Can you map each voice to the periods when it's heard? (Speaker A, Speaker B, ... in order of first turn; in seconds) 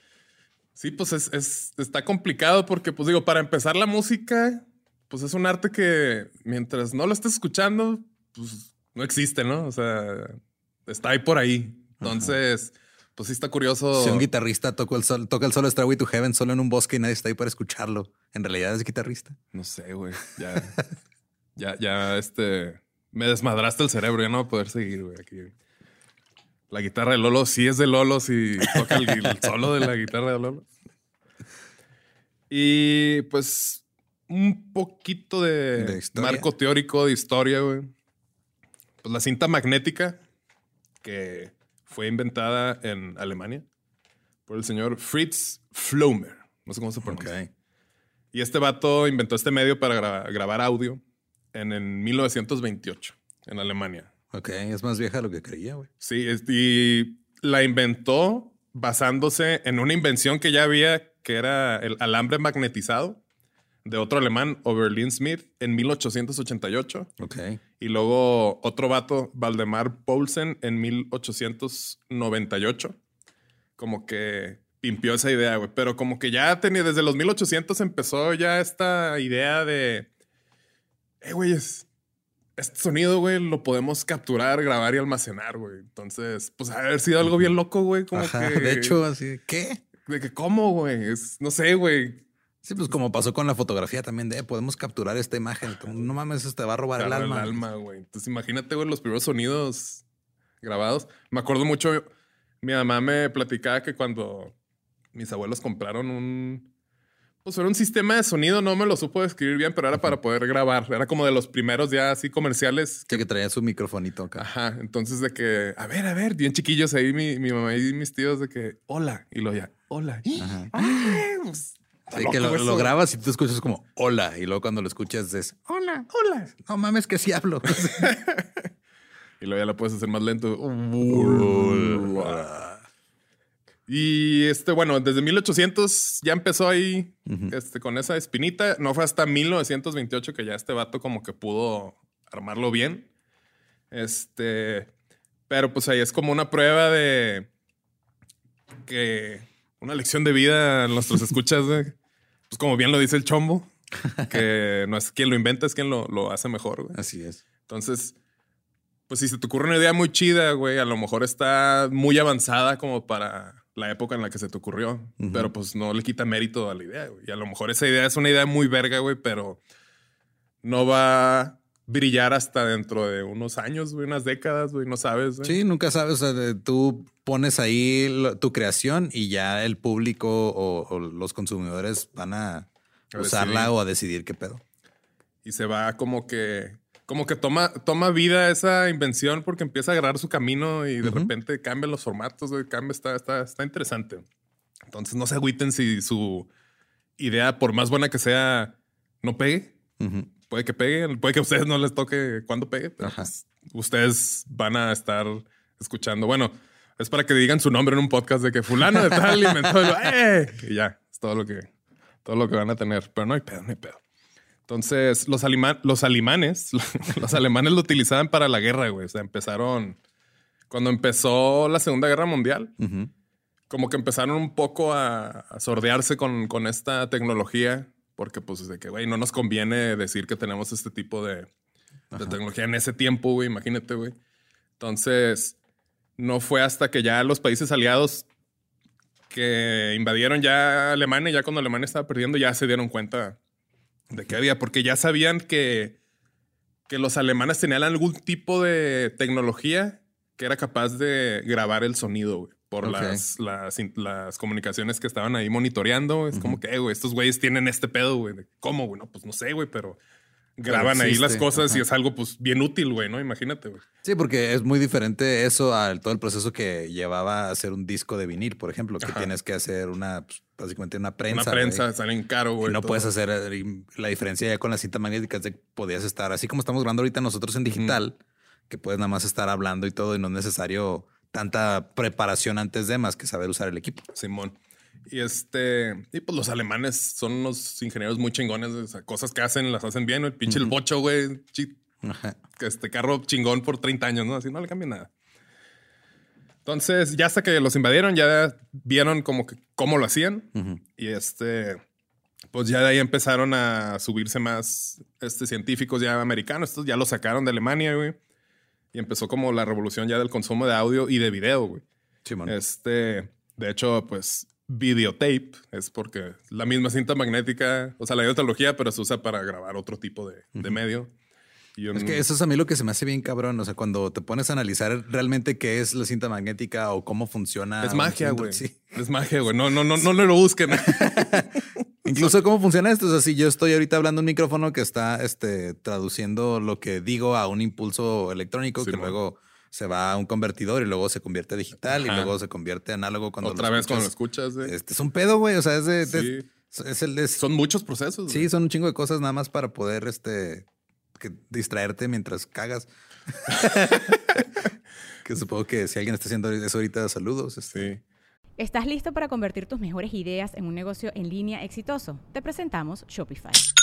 Speaker A: 0.8-14.3, 19.5-20.8, 21.6-25.5, 26.7-30.6, 32.5-37.9, 39.0-40.2, 41.0-43.6, 44.5-47.3, 48.3-51.0, 51.5-54.1, 56.0-63.2, 63.9-67.1, 67.8-73.0, 73.8-80.1, 81.2-81.9, 82.6-89.0, 90.1-92.2, 97.0-100.0, 100.6-102.1, 102.6-104.5, 105.1-106.7, 107.4-113.2, 114.4-122.9, 126.1-126.5, 127.7-128.5, 129.4-132.5, 133.9-143.1, 143.9-144.9, 145.5-147.5, 148.9-151.9, 152.5-157.0, 157.7-158.2, 159.1-169.6, 170.6-175.6, 183.1-183.7, 185.4-194.2, 194.9-196.5, 197.2-199.8, 200.5-211.7, 212.2-214.0, 214.7-220.0, 220.7-222.7, 223.7-231.5, 232.2-234.2, 234.8-235.6, 236.2-238.3, 239.3-243.4, 244.1-246.0, 246.9-260.0, 260.6-263.9, 269.0-269.3, 271.3-273.1, 277.7-278.0, 284.1-284.6, 285.1-291.8, 292.6-295.1, 296.7-301.8, 302.5-308.2, 308.9-311.8, 312.4-321.1, 321.8-322.2, 327.8-331.5, 338.8-339.1, 341.9-342.3, 343.4-344.7, 346.0-346.5, 347.4-348.5, 357.7-358.0
Speaker B: 12.0-12.4, 13.9-19.4, 35.8-36.5, 47.0-47.5, 54.3-55.9, 67.2-67.6, 87.3-87.5, 88.1-89.8, 92.6-97.6, 113.1-114.5, 120.4-121.2, 122.1-128.1, 131.0-132.8, 137.3-137.5, 156.9-157.4, 165.2-165.5, 175.4-184.6, 191.0-191.3, 200.0-200.3, 203.0-203.3, 222.8-223.1, 232.1-232.4, 252.8-253.2, 256.3-256.6, 260.6-261.8, 264.0-271.9, 272.6-278.2, 278.7-284.1, 290.5-290.7, 292.0-292.4, 300.6-300.8, 312.3-312.6, 321.9-328.9, 330.8-344.1, 344.6-347.4, 348.3-350.7, 351.2-354.4, 355.2-357.9
Speaker C: 358.6-363.6